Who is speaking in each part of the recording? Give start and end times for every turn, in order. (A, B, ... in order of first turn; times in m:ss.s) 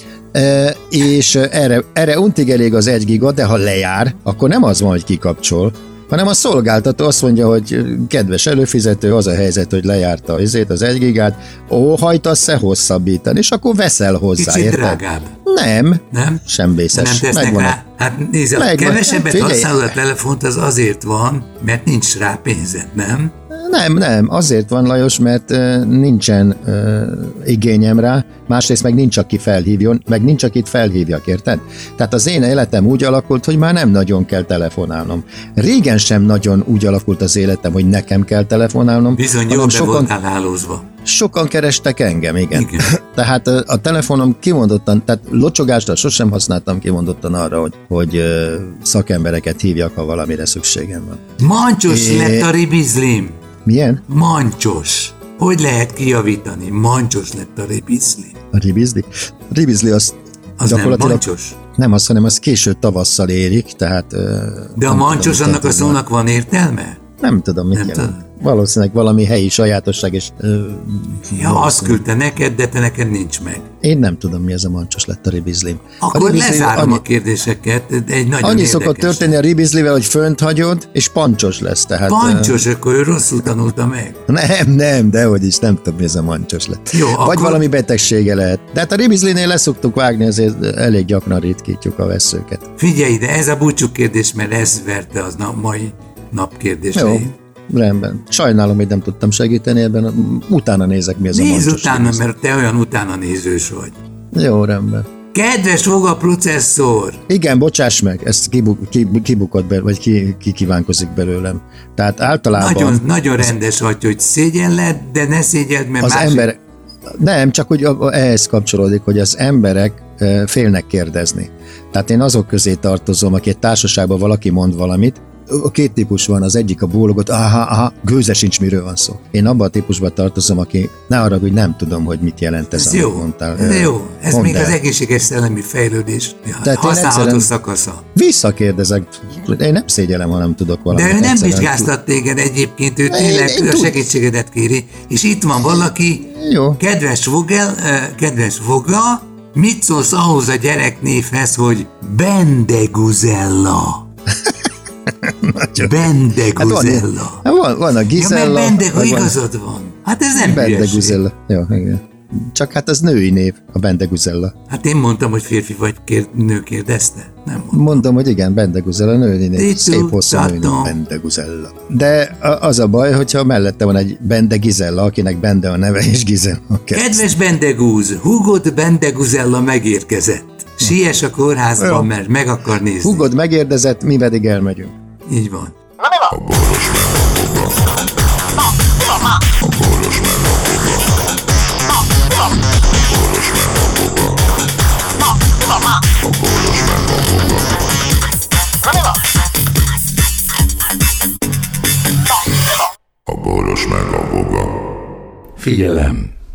0:00.3-0:17.8 A
0:14.4-0:15.4 B
0:16.1-0:23.3 B
0:18.6-0:20.0 A
0:23.5-0:40.1 A
0:39.1-0:40.8 B
0:41.0-0:51.2 A
0:42.5-0:43.0 B
0:51.4-0:53.4 B
0:51.9-0:52.5 A
0:53.6-0:54.0 A
0:54.1-0:58.4 B
0:58.5-1:06.0 A
1:00.6-1:01.6 B
1:04.8-1:07.0 B
1:07.2-1:12.0 A
1:07.7-1:08.2 B
1:11.3-1:13.6 B
1:13.8-1:17.0 A
1:16.0-1:19.4 B
1:18.4-1:22.7 A
1:22.1-1:24.2 B
1:24.3-1:32.7 A
1:26.9-1:27.6 B
1:32.8-1:37.4 B
1:37.0-1:42.2 A
1:41.3-1:44.0 B
1:44.3-1:45.1 A
1:45.3-1:47.2 B
1:47.3-1:53.5 A
1:52.6-1:56.5 B
1:56.0-1:56.6 A
1:57.2-2:14.8 A
2:12.7-2:18.0 B
2:16.6-2:17.5 A
2:18.2-2:21.9 A
2:20.9-2:34.0 B
2:23.1-2:24.0 A
2:26.2-2:26.8 A
2:35.2-2:39.4 A
2:35.8-2:37.4 B
2:38.2-2:41.2 B
2:40.4-2:44.5 A
2:44.7-2:48.0 B
2:47.7-2:57.3 A
2:49.6-2:51.0 B
2:56.9-3:03.3 B
3:01.8-3:02.1 A
3:03.0-3:04.9 A
3:05.3-3:05.8 B
3:06.3-3:07.8 C
3:09.6-3:11.0 C
3:13.1-3:14.3 C
3:16.3-3:17.6 C
3:23.3-3:24.8 C
3:25.6-3:26.3 B